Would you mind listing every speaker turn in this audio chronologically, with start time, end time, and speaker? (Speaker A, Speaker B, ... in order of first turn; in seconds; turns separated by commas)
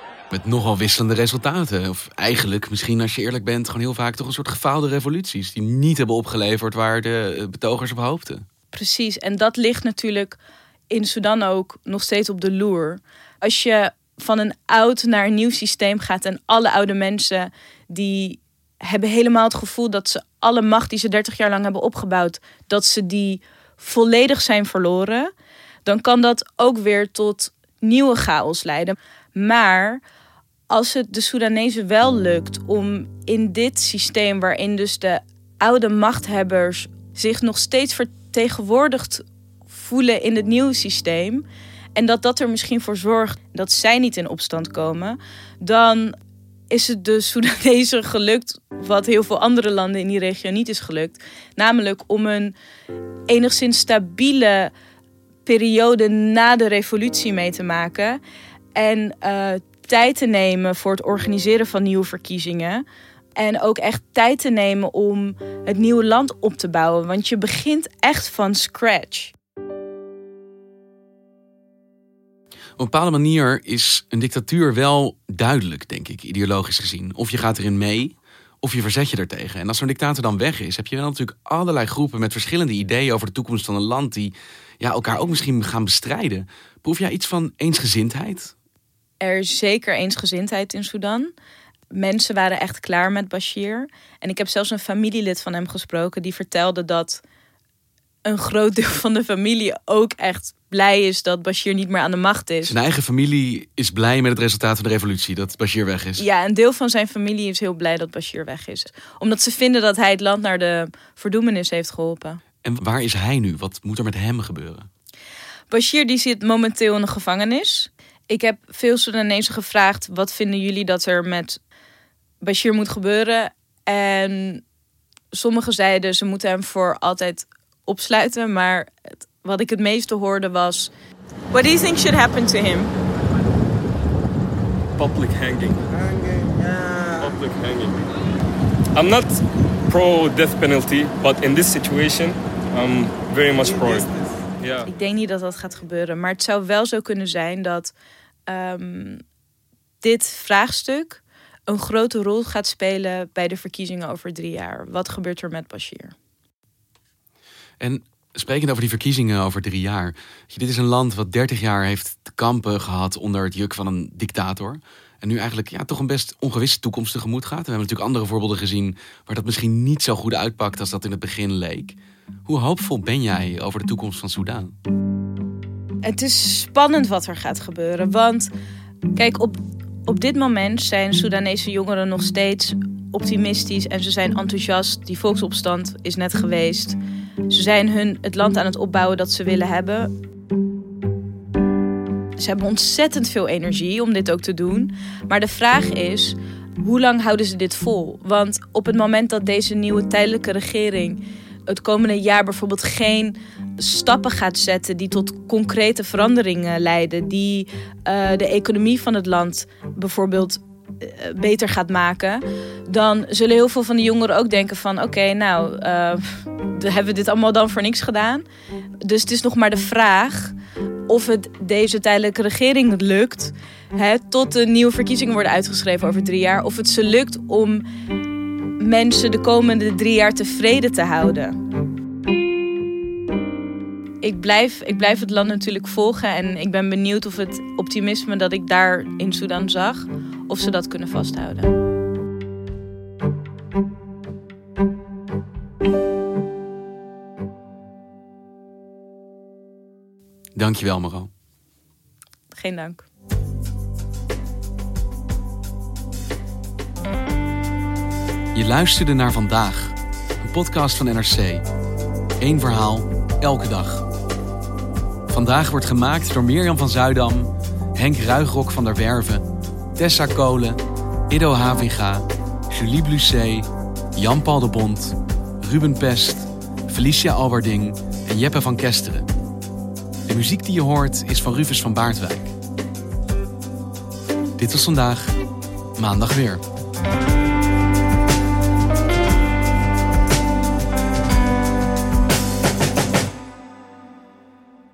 Speaker A: 0.3-8.4, Speaker B: 8.7-10.4, Speaker B: 10.9-25.3, Speaker B: 25.8-30.0, Speaker B: 30.7-46.1, Speaker B: 46.7-52.5, Speaker B: 53.3-54.7, Speaker B: 55.4-58.2, Speaker B: 58.7-62.8, Speaker B: 63.4-69.3, Speaker A: 72.8-88.5, Speaker B: 89.2-91.3, Speaker B: 91.9-97.2, Speaker B: 98.2-102.8, Speaker A: 102.6-106.2, Speaker B: 106.2-112.4, Speaker A: 112.6-114.9, Speaker B: 115.7-121.6, Speaker B: 122.4-124.6, Speaker B: 125.3-130.9, Speaker B: 131.5-132.9, Speaker C: 134.9-135.8, Speaker C: 137.2-138.0, Speaker C: 138.9-144.1, Speaker C: 144.6-144.9, Speaker B: 144.8-147.9, Speaker B: 148.5-149.2, Speaker B: 150.0-156.1, Speaker A: 157.8-174.7, Speaker B: 176.0-178.5, Speaker B: 179.1-190.1, Speaker B: 192.4-218.4, Speaker B: 219.0-220.5, Speaker B: 221.1-227.8, Speaker B: 228.8-231.6, Speaker B: 234.2-241.7, Speaker A: 250.6-251.3, Speaker B: 252.5-253.0, Speaker A: 258.5-261.6, Speaker A: 262.4-264.1, Speaker A: 265.3-269.4, Speaker A: 270.0-279.3, Speaker A: 280.3-282.5, Speaker A: 284.6-285.3, Speaker A: 286.0-286.6